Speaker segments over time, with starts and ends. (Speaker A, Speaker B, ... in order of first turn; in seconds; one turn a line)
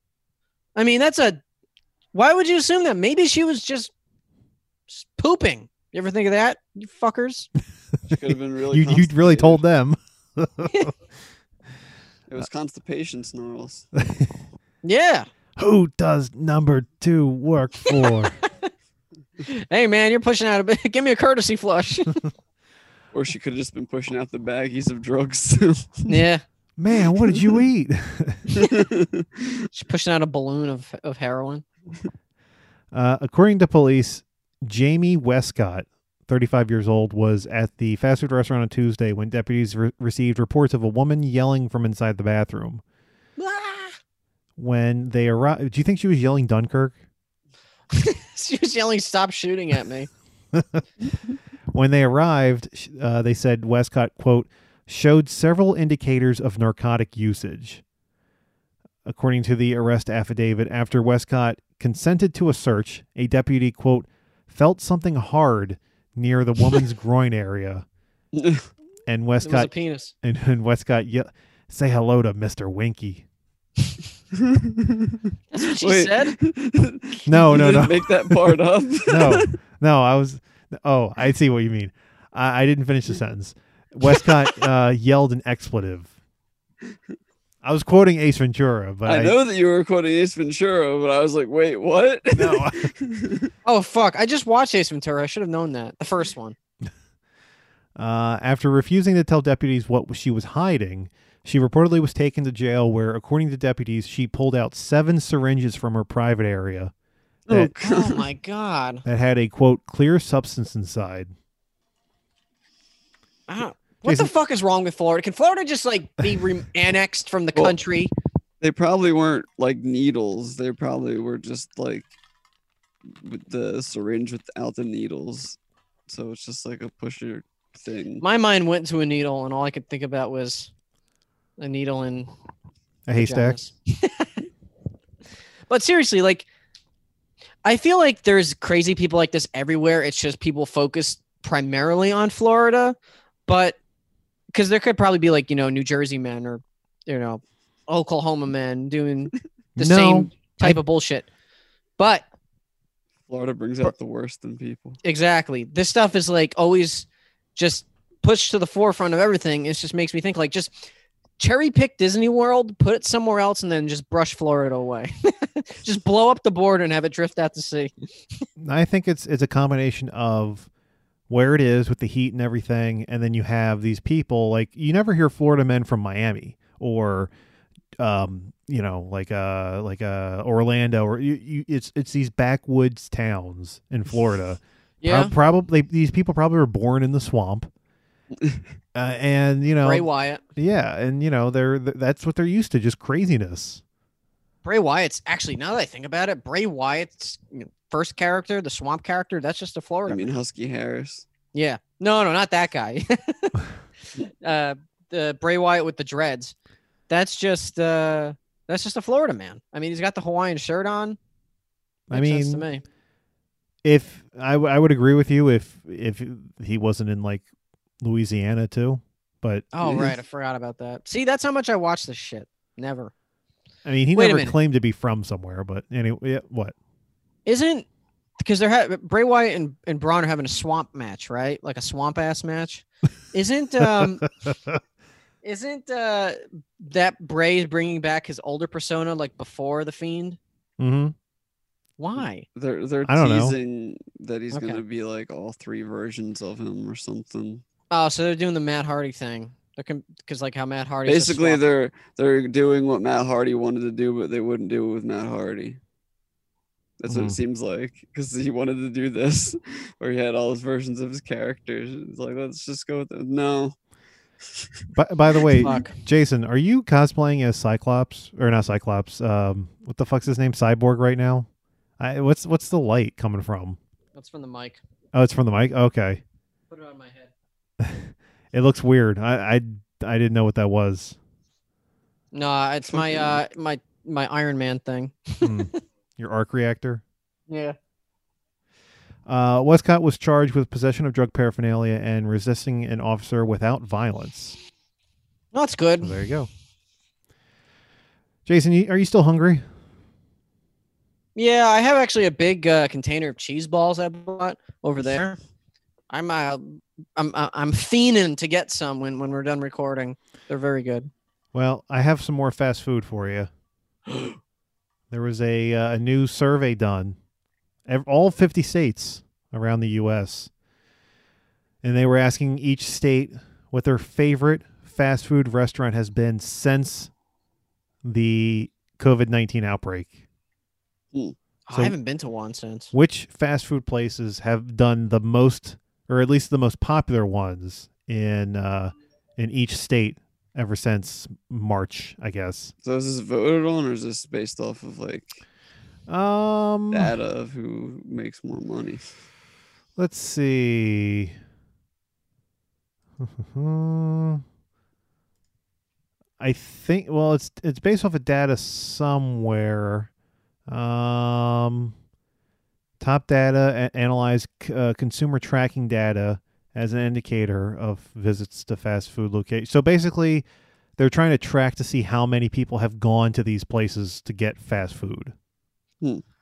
Speaker A: 0.8-1.4
Speaker A: 2.1-3.9
Speaker A: 4.9-7.5
Speaker B: 8.1-9.6
Speaker C: 8.7-10.9
Speaker A: 10.7-10.9
Speaker B: 12.3-13.9
Speaker C: 14.0-14.3
Speaker A: 14.8-15.3
Speaker C: 15.6-18.4
Speaker A: 19.4-22.2
Speaker B: 23.1-26.2
Speaker A: 26.1-26.4
Speaker C: 26.8-28.6
Speaker B: 28.6-29.4
Speaker A: 29.7-31.6
Speaker C: 32.9-42.8
Speaker A: 43.4-44.0
Speaker C: 44.6-47.0
Speaker A: 47.9-50.1
Speaker C: 50.5-50.8
Speaker C: 51.7-57.8
Speaker C: 59.0-67.8
Speaker B: 68.3-68.7
Speaker C: 69.1-73.2
Speaker A: 69.4-70.1
Speaker B: 74.3-75.2
Speaker A: 75.5-76.4
Speaker B: 75.8-79.5
Speaker C: 77.3-86.1
Speaker C: 87.6-89.4
Speaker B: 89.1-93.5
Speaker C: 92.3-92.9
Speaker A: 93.7-96.6
Speaker C: 98.0-106.9
Speaker B: 107.5-108.2
Speaker A: 107.8-109.0
Speaker C: 109.0-111.3
Speaker A: 113.5-118.1
Speaker C: 114.0-114.3
Speaker B: 118.6-122.1
Speaker B: 123.2-128.2
Speaker A: 128.2-130.7
Speaker A: 131.6-132.3
Speaker C: 133.1-133.6
Speaker A: 133.2-134.4
Speaker A: 135.7-136.5
Speaker A: 137.6-143.0
Speaker A: 143.5-143.8
Speaker A: 144.5-151.3
Speaker C: 149.8-150.8
Speaker A: 152.0-152.3
Speaker B: 153.3-155.0
Speaker A: 155.0-160.9
Speaker A: 161.4-167.9
Speaker C: 168.6-170.7
Speaker C: 171.3-177.3
Speaker C: 178.0-187.7
Speaker A: 185.0-185.3
Speaker B: 188.3-188.6
Speaker C: 188.9-193.8
Speaker A: 189.8-190.4
Speaker A: 194.6-200.3
Speaker B: 200.1-201.2
Speaker A: 201.5-203.6
Speaker A: 204.2-206.6
Speaker A: 207.1-211.2
Speaker C: 212.1-212.7
Speaker A: 212.1-212.8
Speaker C: 213.8-217.4
Speaker C: 218.0-220.1
Speaker A: 219.7-223.1
Speaker C: 223.8-226.7
Speaker A: 224.2-224.6
Speaker A: 227.5-227.9
Speaker A: 228.4-234.3
Speaker C: 233.8-234.8
Speaker A: 235.4-240.4
Speaker C: 240.8-241.2
Speaker A: 242.0-242.5
Speaker B: 242.6-247.6
Speaker C: 243.1-243.6
Speaker A: 244.5-244.8
Speaker A: 247.9-251.6
Speaker B: 251.1-255.8
Speaker B: 257.0-263.8
Speaker C: 257.1-257.4
Speaker C: 264.9-271.5
Speaker A: 265.6-266.0
Speaker C: 272.0-273.8
Speaker A: 274.1-274.8
Speaker C: 275.1-276.2
Speaker A: 276.7-277.3
Speaker C: 277.8-281.2
Speaker A: 282.3-285.8
Speaker B: 282.9-283.4
Speaker C: 285.4-287.0
Speaker A: 287.5-287.8
Speaker C: 289.3-294.6
Speaker A: 295.5-296.2
Speaker C: 296.0-296.5
Speaker C: 298.5-299.6
Speaker A: 301.4-305.4
Speaker A: 306.1-311.1
Speaker C: 311.5-313.5
Speaker C: 315.1-317.2
Speaker C: 317.9-320.5
Speaker C: 321.8-327.1
Speaker C: 328.0-330.2
Speaker A: 331.7-332.9
Speaker C: 332.9-342.7
Speaker B: 342.8-345.4
Speaker C: 346.1-347.1
Speaker B: 346.9-349.2
Speaker C: 350.0-351.3
Speaker C: 353.2-354.4
Speaker C: 356.4-360.1
Speaker C: 360.7-361.9
Speaker C: 363.0-370.4
Speaker C: 371.0-375.3